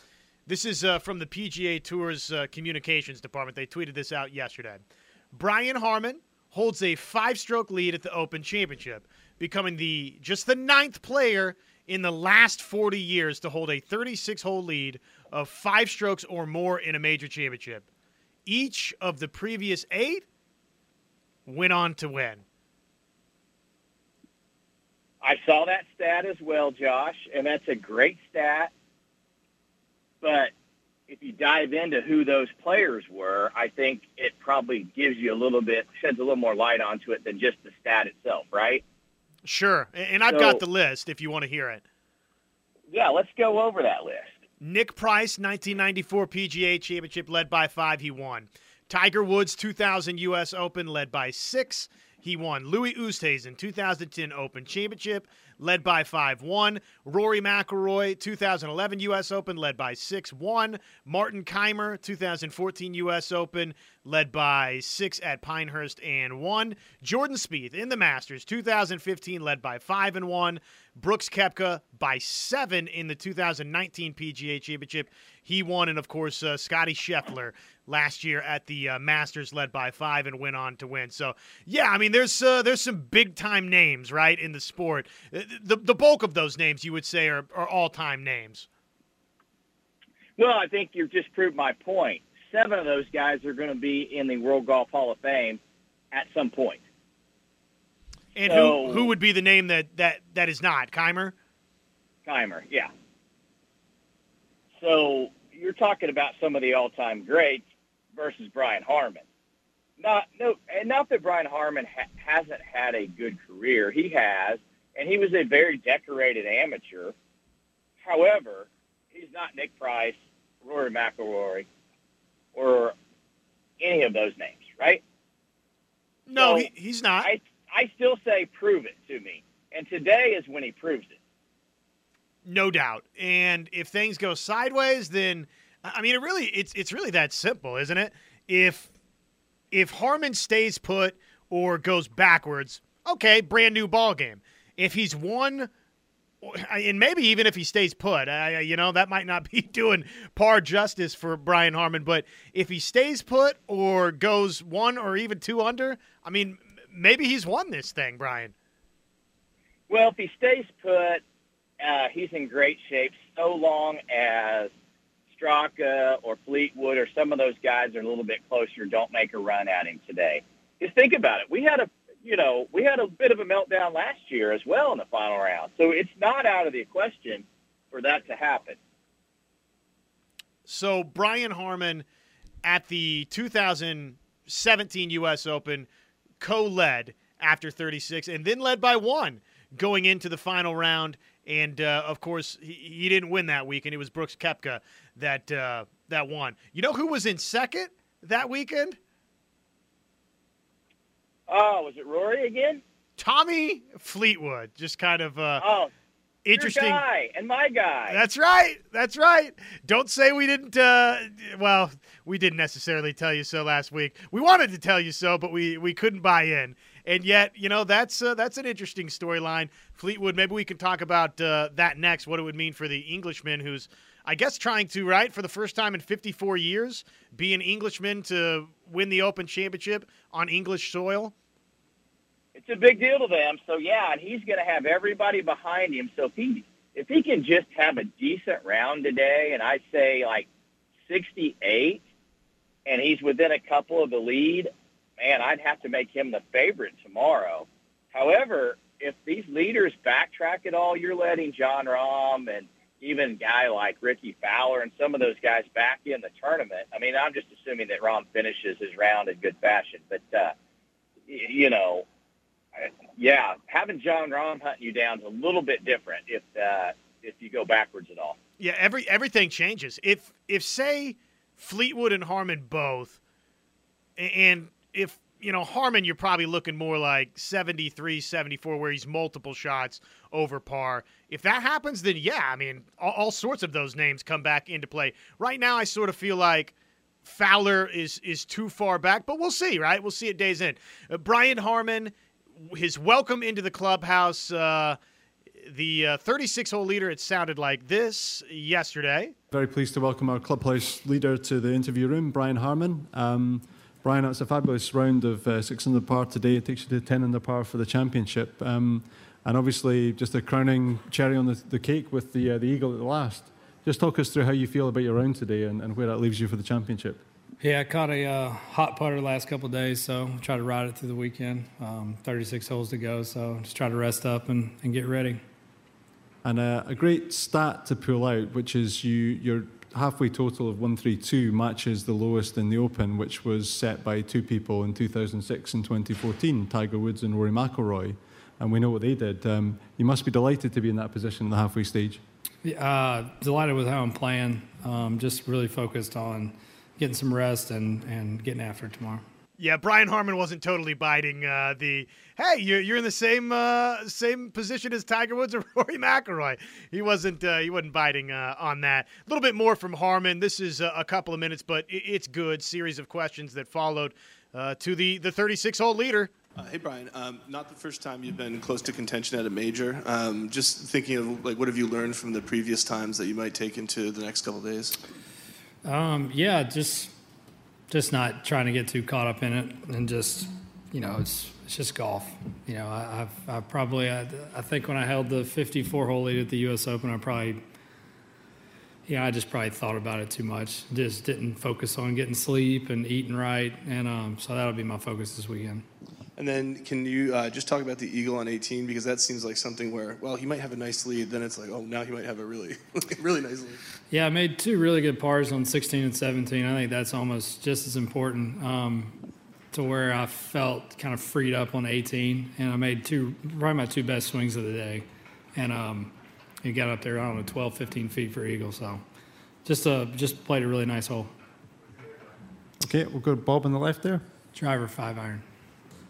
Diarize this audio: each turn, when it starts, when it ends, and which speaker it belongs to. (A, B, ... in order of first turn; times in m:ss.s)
0:00.5-0:17.8 A
0:18.5-0:20.2 A
0:21.5-0:22.4 A
0:25.2-0:28.7 B
0:30.2-0:30.5 B
0:31.1-0:38.8 B
0:39.4-0:41.8 A
0:40.3-0:40.6 B
0:42.9-0:44.3 B
0:44.6-1:28.7 A
1:30.4-1:35.6 B
1:36.1-1:36.8 B
1:38.4-1:41.4 A
1:38.4-1:39.1 B
1:42.3-1:42.9 B
1:44.8-1:47.6 B
1:48.2-1:49.2 B
1:50.0-1:57.1 B
1:58.0-2:01.7 B
2:02.6-2:03.0 B
2:03.8-2:05.0 B
2:06.3-2:07.3 A
2:06.4-2:06.7 B
2:07.2-2:11.2 B
2:12.5-2:18.9 A
2:19.7-2:25.7 A
2:26.4-2:38.5 A
2:39.9-2:41.2 B
2:41.8-2:44.7 B
2:45.3-2:58.8 B
3:00.7-3:02.0 A
3:02.6-3:05.9 A
3:06.4-3:19.0 A
3:21.5-3:22.8 B
3:23.2-3:25.6 A
3:25.6-3:25.9 B
3:26.4-3:27.0 A
3:26.5-3:28.2 B
3:28.1-3:51.3 A
3:52.6-4:00.5 B
4:01.1-4:02.0 B
4:02.9-4:20.5 B
4:21.3-4:22.0 B
4:22.8-4:28.4 B
4:28.6-4:33.2 A
4:34.2-4:55.0 A
4:55.6-4:59.3 A
4:59.5-5:17.2 C
5:17.6-5:25.4 D
5:26.4-5:42.2 C
5:42.6-5:49.2 D
5:49.6-6:06.3 A
6:06.6-6:15.0 E
6:15.8-6:17.1 D
6:17.9-6:27.6 D
6:29.1-6:35.8 D
6:36.4-6:43.8 E
6:44.1-6:49.2 D
6:49.7-6:59.0 D
6:59.6-7:01.3 D
7:02.8-7:04.2 C
7:04.5-7:05.4 D